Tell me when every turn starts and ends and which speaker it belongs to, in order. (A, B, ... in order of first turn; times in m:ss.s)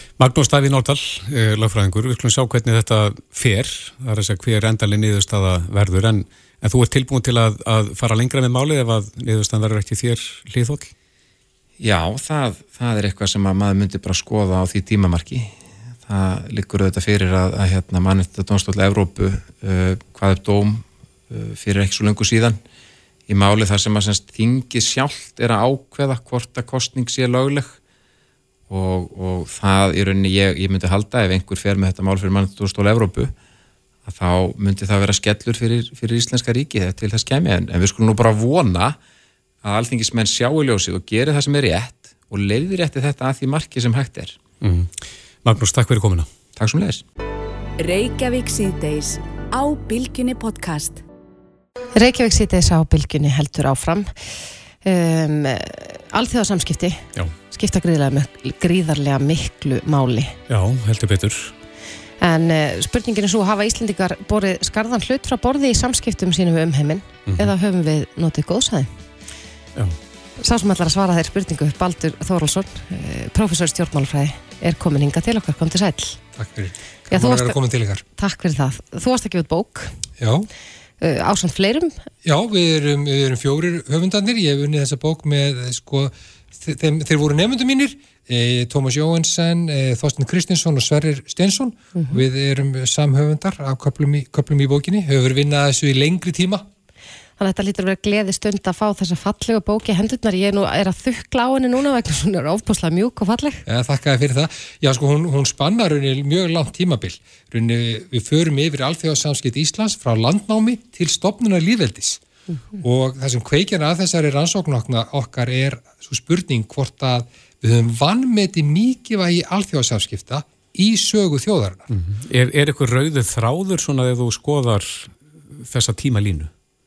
0:00.2-0:10.9 A
0:11.8-0:15.5 B
0:16.0-0:22.6 B
0:23.3-0:27.8 B
0:28.7-0:33.3 B
0:34.1-0:39.0 B
0:39.6-0:44.4 B
0:44.6-0:46.3 A
0:46.6-0:47.0 B
0:47.8-0:51.0 C
0:52.0-0:54.1 D
0:54.8-1:00.3 D
1:00.5-1:01.5 A
1:02.2-1:08.9 D
1:10.4-1:16.2 D
1:16.4-1:18.0 E
1:17.1-1:17.6 D
1:18.2-1:19.9 D
1:20.2-1:20.5 E
1:21.0-1:22.0 D
1:22.2-1:36.7 E
1:32.0-1:32.2 D
1:37.4-1:43.6 D
1:43.7-1:52.2 E
1:52.8-2:01.9 E
2:01.9-2:06.5 A